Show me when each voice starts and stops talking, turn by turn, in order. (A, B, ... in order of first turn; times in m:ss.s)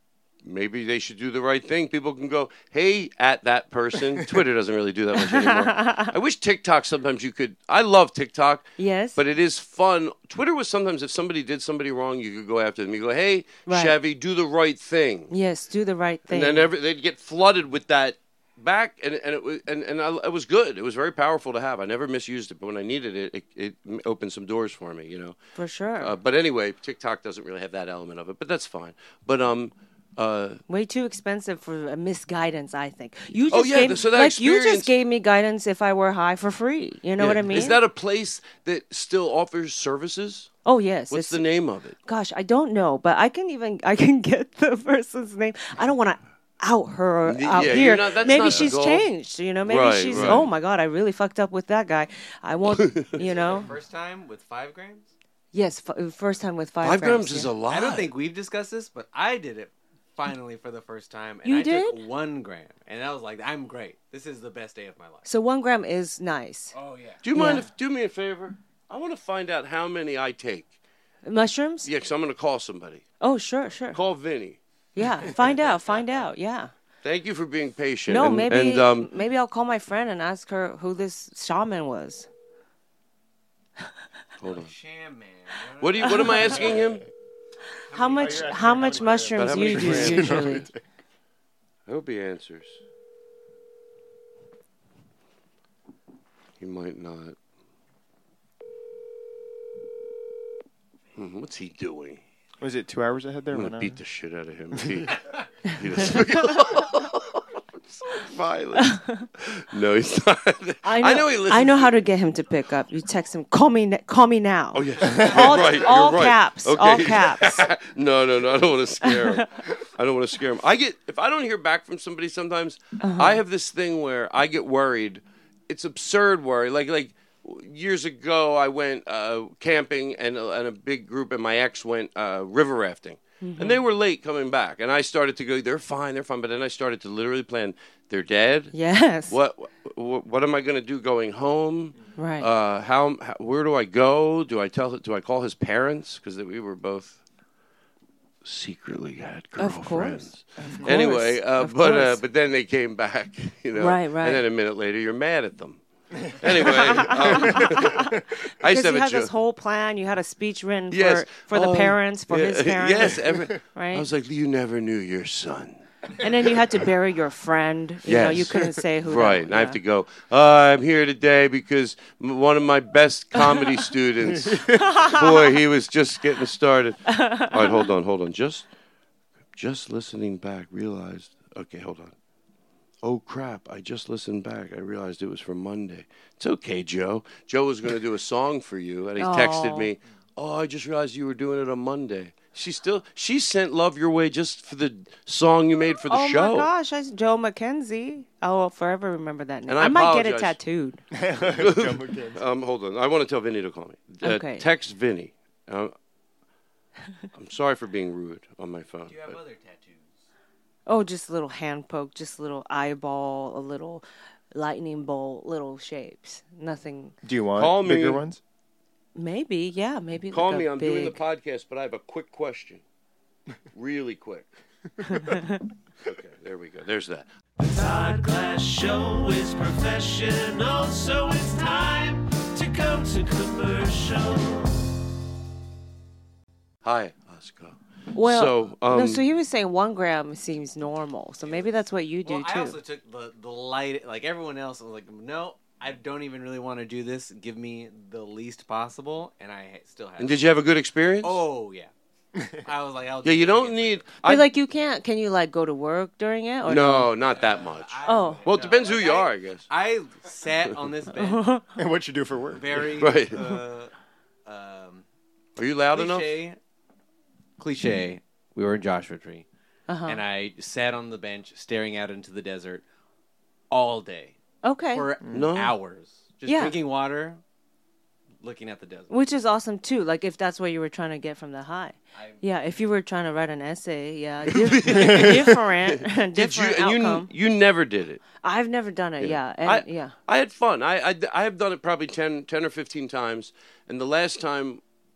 0:00.4-0:15.3 A
0:05.1-0:06.1 B
0:08.8-0:09.2 B
0:13.6-0:14.0 B
0:15.3-0:16.7 B
0:16.3-0:25.4 A
0:25.5-0:26.1 B
0:26.0-0:30.6 A
0:30.7-0:37.8 B
0:33.5-0:34.9 A
0:37.2-0:40.5 A
0:40.6-0:41.4 B
0:41.1-0:42.0 A
0:42.0-0:53.6 B
0:47.2-0:49.1 A
0:49.6-0:50.5 A
0:52.7-0:53.2 A
0:53.2-0:55.1 C
0:55.5-0:57.5 B
0:56.8-0:58.1 A
0:57.7-1:05.3 C
1:01.4-1:02.0 B
1:05.2-1:06.7 B
1:06.7-1:07.2 C
1:07.2-1:10.7 A
1:07.3-1:07.7 B
1:11.2-1:11.9 B
1:11.8-1:13.0 A
1:13.2-1:14.0 B
1:13.9-1:14.6 A
1:14.9-1:16.7 B
1:15.5-1:16.3 C
1:17.0-1:19.1 A
1:18.1-1:22.3 B
1:24.4-1:24.7 A
1:24.5-1:26.8 C
1:25.8-1:27.0 A
1:26.0-1:26.5 B
1:27.9-1:29.2 C
1:27.9-1:30.7 B
1:28.1-1:30.8 D
1:29.3-1:30.6 A
1:31.9-1:32.8 A
1:36.6-1:37.4 A
1:41.2-1:42.2 A
1:42.6-1:44.0 D
1:43.5-1:52.0 A
1:45.7-1:46.2 B
1:48.8-1:49.2 B
1:50.8-1:57.7 B
1:54.7-2:18.7 A
1:55.1-1:55.5 D
1:59.0-1:59.4 B
2:03.0-2:03.4 B
2:13.4-2:13.8 B
2:18.7-2:19.4 B
2:19.3-2:27.2 A
2:22.2-2:22.5 B
2:28.4-2:39.3 A
2:29.6-2:32.2 B
2:33.7-2:34.4 B
2:36.6-2:44.0 B
2:40.9-2:45.8 A
2:46.2-2:49.8 B
2:48.0-2:58.7 A
2:53.4-2:53.8 B
2:54.4-2:54.8 D
2:54.8-2:55.4 B
2:57.1-2:57.9 B
2:59.5-3:02.1 A
3:03.0-3:16.7 A
3:09.2-3:09.9 B
3:16.1-3:21.0 B
3:19.7-3:20.6 A
3:21.1-3:22.4 D
3:21.4-3:25.9 A
3:24.2-3:24.7 B
3:27.3-3:29.4 A
3:29.0-3:30.2 C
3:30.9-3:37.1 B
3:37.2-3:38.4 D
3:37.5-3:38.2 A
3:39.1-3:41.2 B
3:40.3-3:42.8 A
3:43.7-3:44.5 A
3:45.0-3:45.6 B
3:46.0-3:47.3 A
3:47.6-3:54.7 E
3:56.8-3:59.2 A
3:58.1-4:02.8 B
4:02.2-4:10.4 C
4:10.2-4:11.4 A
4:11.2-4:11.9 C
4:12.6-4:14.0 C
4:13.2-4:14.5 A
4:14.2-4:17.1 B
4:16.6-4:19.6 A
4:17.2-4:21.5 C
4:18.0-4:18.4 B
4:21.1-4:21.6 B
4:21.8-4:22.7 D
4:22.5-4:23.9 C
4:22.9-4:23.4 A
4:24.4-4:25.0 C
4:25.6-4:26.4 A
4:25.9-4:26.6 C
4:27.6-4:29.4 C
4:29.9-4:30.2 B
4:30.1-4:32.8 C
4:33.7-4:34.4 C
4:34.6-4:35.1 B
4:34.9-4:37.4 C
4:35.3-4:35.7 A
4:36.4-4:36.8 B
4:38.4-4:39.1 C
4:39.1-4:47.3 B
4:44.5-4:48.2 A
4:48.4-4:50.1 B
4:49.2-4:54.8 A